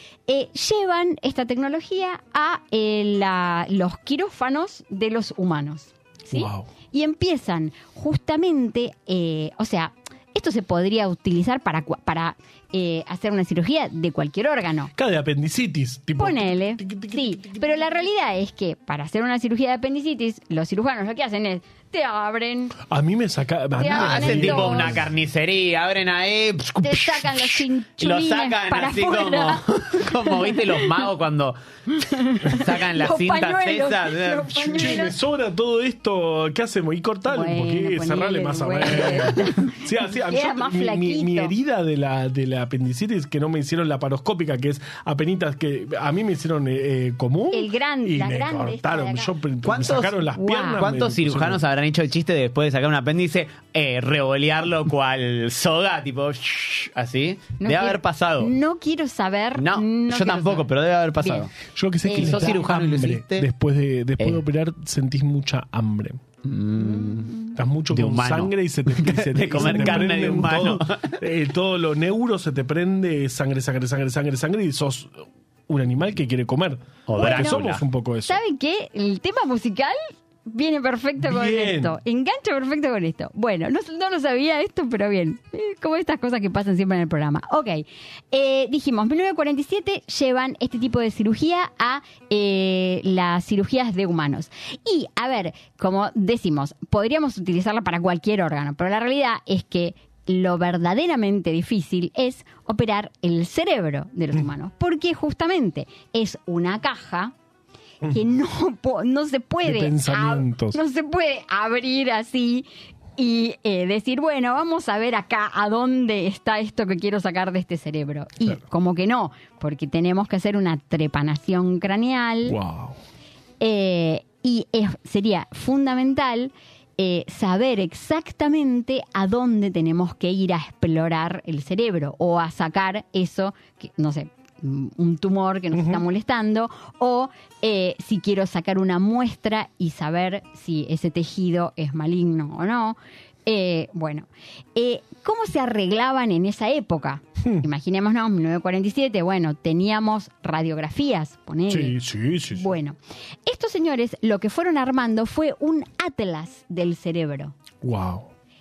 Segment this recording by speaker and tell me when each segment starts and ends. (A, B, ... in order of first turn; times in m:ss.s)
0:00.3-0:14.9 A
0:06.3-0:06.7 B
0:15.0-0:17.9 B
0:16.2-0:22.8 A
0:22.9-0:25.1 B
0:23.8-0:25.0 A
0:23.9-0:31.6 C
0:26.8-0:31.1 A
0:31.9-0:35.2 A
0:32.4-0:34.9 C
0:34.7-0:51.6 B
0:37.3-0:41.5 A
0:47.5-0:49.3 A
0:49.6-0:58.6 C
0:50.4-0:50.9 A
0:57.6-1:00.7 A
0:59.6-1:01.5 C
1:01.2-1:01.5 A
1:01.7-1:06.2 B
1:02.0-1:02.6 A
1:02.1-1:03.5 C
1:06.4-1:07.3 C
1:06.8-1:07.6 A
1:07.6-1:18.4 B
1:07.9-1:11.2 C
1:09.6-1:10.4 A
1:17.1-1:17.8 C
1:17.2-1:17.6 A
1:18.3-1:47.3 A
1:21.2-1:22.0 B
1:48.1-2:02.6 A
1:49.6-1:50.8 B
2:02.5-2:03.0 B
2:03.6-2:32.0 A
2:15.7-2:16.1 B
2:31.7-2:32.7 B
2:32.5-2:37.6 A
2:37.8-2:38.3 B